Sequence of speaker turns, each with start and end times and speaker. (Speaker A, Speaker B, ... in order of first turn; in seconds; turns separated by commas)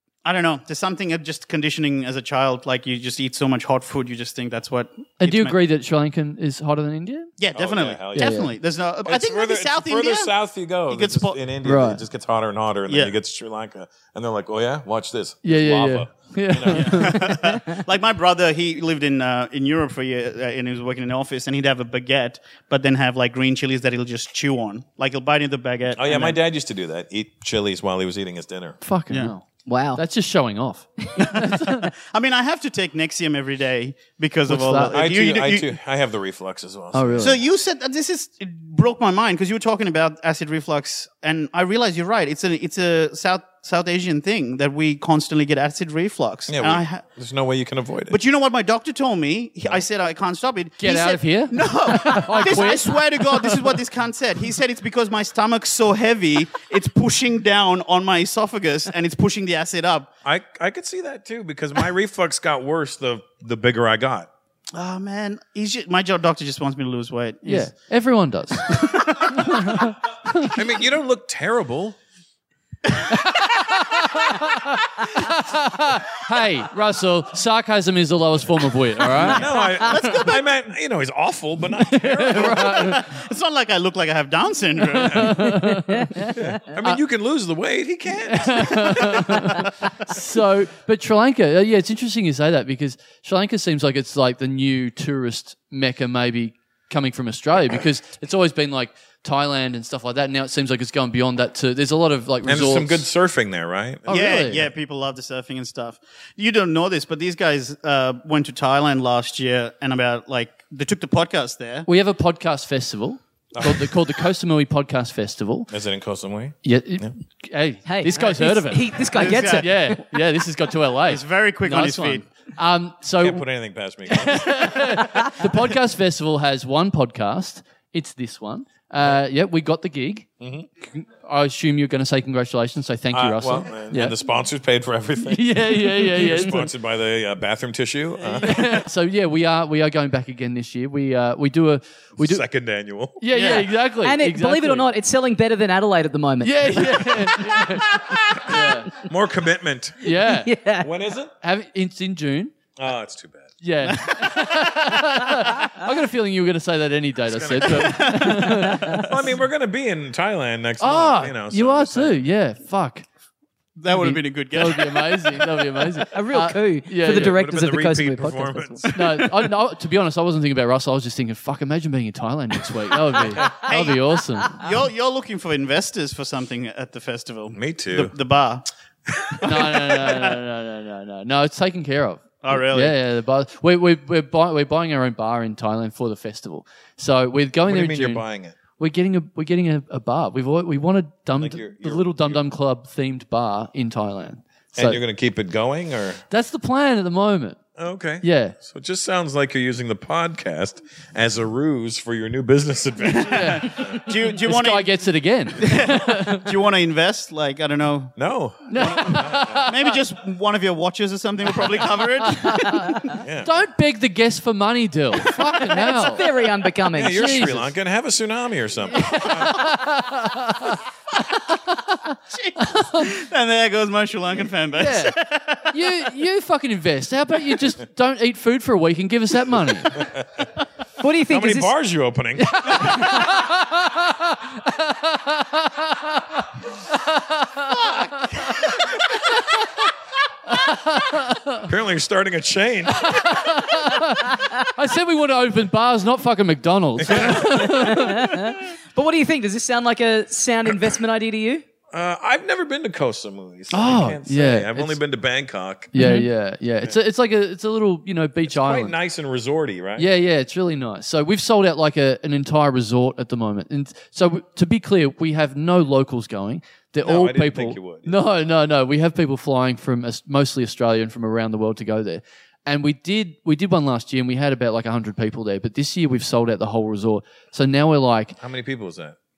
Speaker A: 0.2-5.5, Speaker B: 5.2-7.3, Speaker A: 7.4-10.3, Speaker C: 7.5-8.5, Speaker B: 8.1-8.5, Speaker C: 9.0-17.2, Speaker A: 10.9-11.4, Speaker B: 11.6-12.0, Speaker A: 12.9-13.1, Speaker B: 15.4-17.3, Speaker A: 16.7-26.4, Speaker C: 25.9-28.8, Speaker B: 28.8-31.9, Speaker D: 29.6-30.0, Speaker A: 31.2-35.7, Speaker B: 34.5-34.9, Speaker C: 34.9-37.4, Speaker B: 36.9-37.4, Speaker A: 37.2-47.0, Speaker C: 46.5-48.2, Speaker A: 48.1-60.1, Speaker B: 50.8-53.5, Speaker C: 60.2-64.3, Speaker A: 64.7-67.7, Speaker B: 67.4-70.5, Speaker A: 68.7-69.8, Speaker C: 70.4-72.0, Speaker B: 73.1-79.5, Speaker C: 79.2-83.1, Speaker A: 79.3-80.5, Speaker B: 81.9-83.0, Speaker A: 82.3-85.5, Speaker B: 84.9-86.1, Speaker C: 85.0-85.4, Speaker D: 85.9-86.3, Speaker C: 86.2-89.4, Speaker B: 88.3-103.1, Speaker C: 102.4-104.7, Speaker B: 104.0-104.6, Speaker A: 104.1-111.9, Speaker B: 111.9-115.7, Speaker C: 113.5-114.0, Speaker C: 115.7-117.1, Speaker B: 116.6-123.4, Speaker D: 117.8-119.8, Speaker A: 119.1-119.7, Speaker A: 121.1-122.2, Speaker C: 123.2-124.8, Speaker B: 124.1-130.3, Speaker C: 130.4-130.7, Speaker B: 130.8-134.2, Speaker C: 133.1-138.8, Speaker B: 135.3-136.7, Speaker B: 138.4-142.4, Speaker C: 142.2-143.2, Speaker B: 143.2-144.8, Speaker A: 143.3-143.7, Speaker D: 143.8-147.4, Speaker B: 146.4-148.9, Speaker C: 148.3-150.0, Speaker B: 150.0-150.5, Speaker D: 150.2-150.9, Speaker C: 150.8-151.3, Speaker B: 151.4-152.5, Speaker C: 152.8-153.5, Speaker B: 153.6-159.1, Speaker A: 153.8-154.7, Speaker C: 157.2-162.2, Speaker A: 157.7-158.5, Speaker D: 158.3-159.1, Speaker B: 160.8-163.1, Speaker A: 163.8-166.0, Speaker B: 163.9-167.4, Speaker D: 166.1-168.8, Speaker C: 167.2-168.9, Speaker B: 168.9-174.6, Speaker A: 173.6-174.0, Speaker A: 174.5-178.7, Speaker C: 177.5-178.1, Speaker C: 179.1-179.4, Speaker A: 179.3-180.4, Speaker B: 179.4-188.2, Speaker A: 182.4-183.0, Speaker C: 187.7-188.6, Speaker B: 188.8-195.0, Speaker C: 191.4-192.4, Speaker C: 194.8-196.2, Speaker B: 196.3-197.6, Speaker C: 197.8-204.0, Speaker B: 198.2-198.5, Speaker A: 203.0-204.9, Speaker B: 203.2-206.5, Speaker A: 205.6-208.2, Speaker C: 208.2-209.7, Speaker B: 208.7-209.9, Speaker A: 208.8-213.2, Speaker B: 212.4-216.2, Speaker C: 213.2-213.6, Speaker D: 215.7-217.4, Speaker C: 216.9-219.7, Speaker B: 217.0-217.7, Speaker B: 218.9-220.8, Speaker B: 221.7-223.0, Speaker A: 222.3-225.8, Speaker B: 224.8-225.2, Speaker B: 225.7-230.0, Speaker C: 229.9-230.5, Speaker D: 231.0-231.7, Speaker C: 231.3-233.1, Speaker B: 232.4-238.6, Speaker A: 237.7-239.0, Speaker B: 240.6-241.6, Speaker C: 241.6-243.6, Speaker B: 243.0-248.4, Speaker C: 247.0-247.9, Speaker D: 247.5-251.6, Speaker C: 251.9-255.9, Speaker B: 253.7-255.0, Speaker B: 255.9-258.9, Speaker D: 255.9-256.3, Speaker C: 258.5-260.1, Speaker B: 260.0-278.4, Speaker C: 267.0-268.2, Speaker C: 278.4-279.2